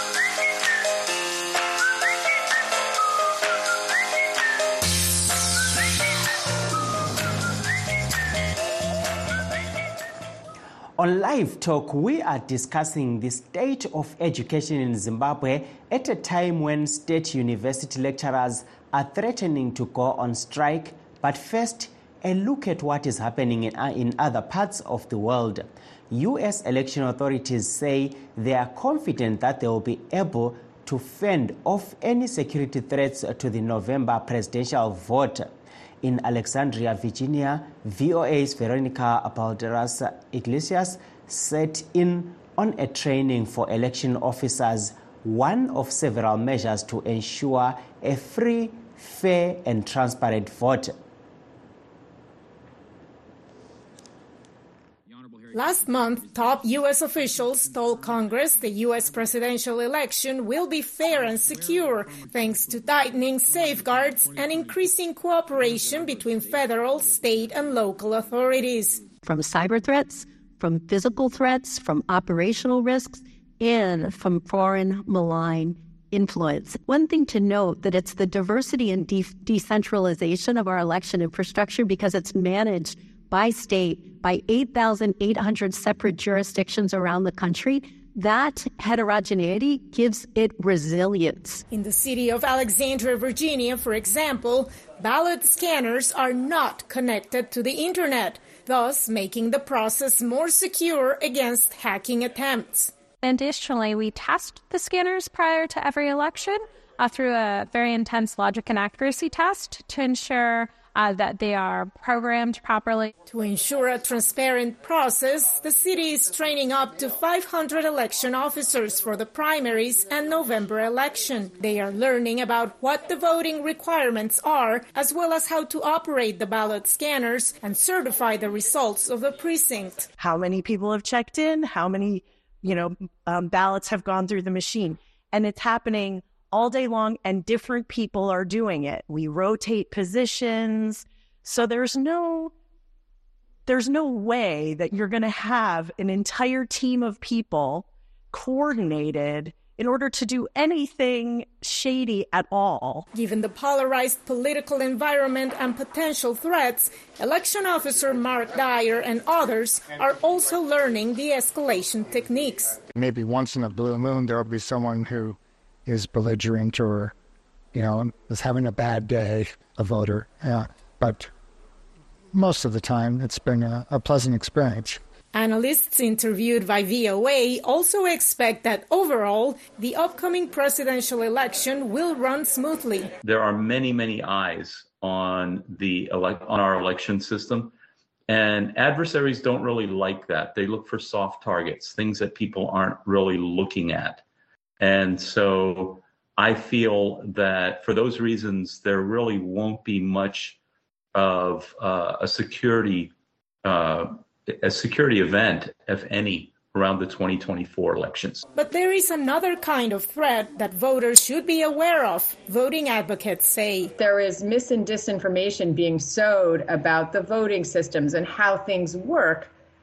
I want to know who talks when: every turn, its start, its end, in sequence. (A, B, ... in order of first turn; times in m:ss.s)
0:11.0-0:35.5 A
0:36.0-0:50.9 A
0:55.5-1:09.1 B
1:09.2-1:31.6 C
1:31.7-1:42.9 B
1:43.2-1:53.1 D
1:53.3-2:10.1 B
2:10.2-2:22.5 E
2:23.7-2:33.1 E
2:33.1-2:42.8 B
2:42.9-2:47.1 F
2:47.7-2:51.3 F
2:52.3-2:55.0 F
2:55.3-3:03.1 B
3:03.2-3:07.7 G
3:08.3-3:14.2 G
3:14.8-3:20.6 G
3:21.1-3:23.1 G
3:23.6-3:28.4 G
3:28.5-3:33.9 B
3:34.0-3:39.5 H